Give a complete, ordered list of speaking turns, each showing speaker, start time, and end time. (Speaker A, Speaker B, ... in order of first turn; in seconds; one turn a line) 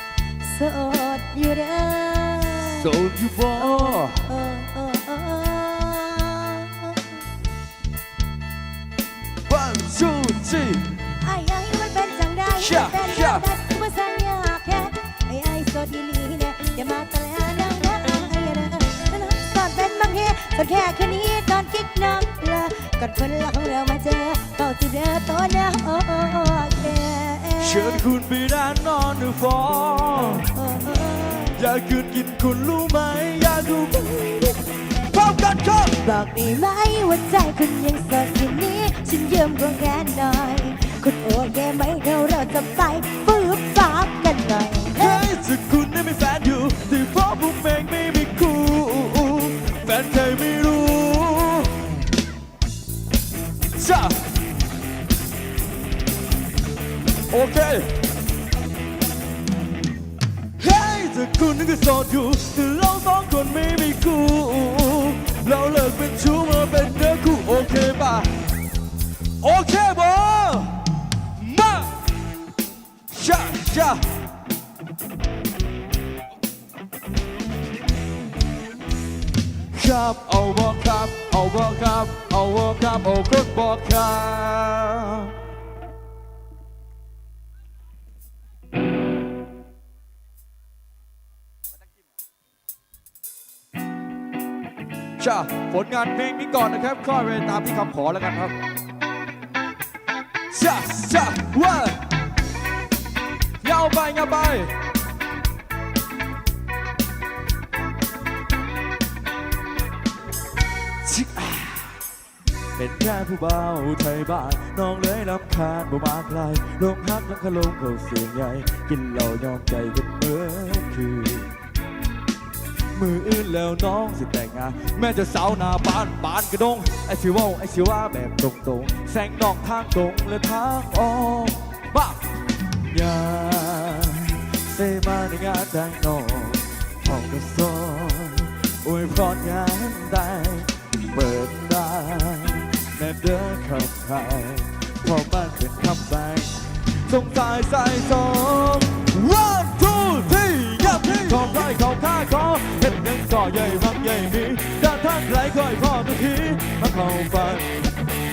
Speaker A: 0.4-2.9
Speaker B: 2.6-4.2
Speaker A: 3.6-7.1
Speaker B: 9.5-10.8
Speaker A: 11.2-28.0
Speaker B: 12.6-13.5
Speaker B: 27.6-30.5
Speaker A: 30.6-31.6
Speaker B: 31.6-36.0
Speaker A: 36.0-45.3
Speaker B: 45.0-51.7
Speaker B: 53.8-54.2
Speaker B: 57.3-57.9
Speaker B: 60.6-68.3
Speaker B: 69.4-70.8
Speaker B: 71.4-71.9
Speaker B: 73.1-74.0
Speaker B: 79.7-85.3
Speaker B: 95.2-98.5
Speaker B: 100.5-102.0
Speaker B: 103.6-104.7
Speaker B: 111.0-111.9
Speaker B: 112.8-121.5
Speaker B: 123.0-132.2
Speaker B: 132.9-146.5
Speaker B: 147.1-157.7